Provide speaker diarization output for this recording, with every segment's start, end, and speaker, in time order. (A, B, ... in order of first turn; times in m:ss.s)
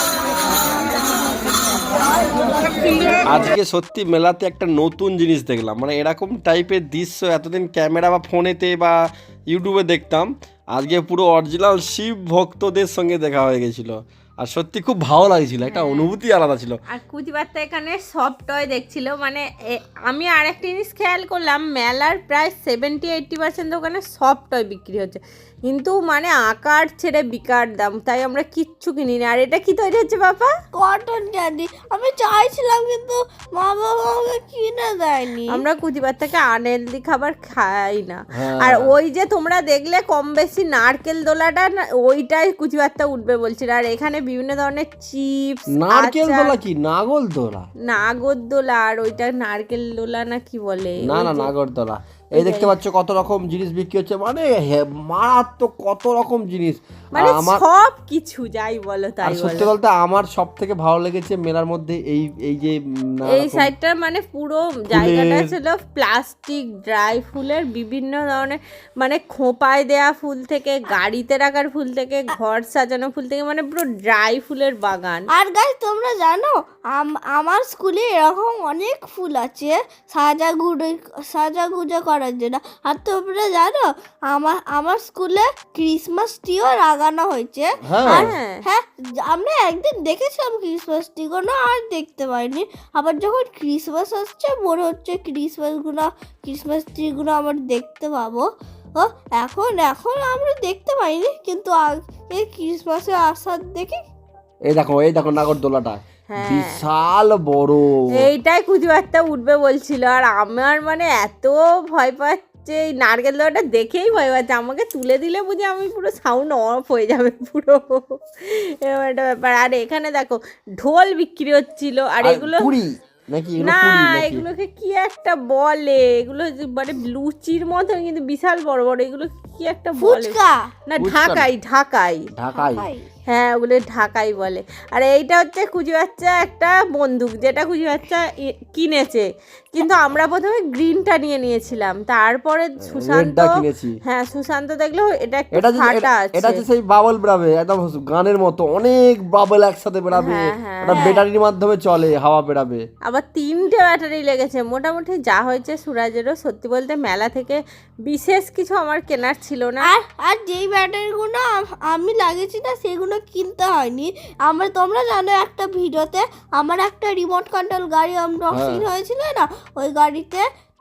0:02.6-0:03.2 A
0:03.3-0:16.8 B
0:15.7-0:16.1 A
0:16.9-0:30.5 A
0:30.7-0:35.6 C
0:35.5-0:46.6 A
0:38.4-0:38.9 B
0:45.8-0:47.7 B
0:47.9-0:51.5 A
0:51.0-0:57.6 B
0:52.4-0:52.8 A
0:57.1-0:59.7 A
0:59.2-1:03.7 B
1:03.3-1:15.3 A
1:04.9-1:05.5 B
1:15.3-1:38.4 C
1:27.8-1:28.3 B
1:28.0-1:28.6 A
1:39.0-1:44.0 C
1:44.7-1:48.3 B
1:46.3-1:46.8 A
1:48.2-2:02.8 A
2:02.2-2:04.5 B
2:03.6-2:10.4 A
2:10.0-2:10.7 C
2:10.9-2:12.3 A
2:11.0-2:11.5 B
2:12.4-2:12.8 B
2:12.5-2:13.1 C
2:13.3-2:23.5 A
2:22.9-2:23.9 B
2:24.1-2:26.6 A
2:25.6-2:32.8 B
2:30.2-2:31.2 A
2:33.1-2:39.9 A
2:39.8-2:50.5 C
2:48.5-2:48.9 B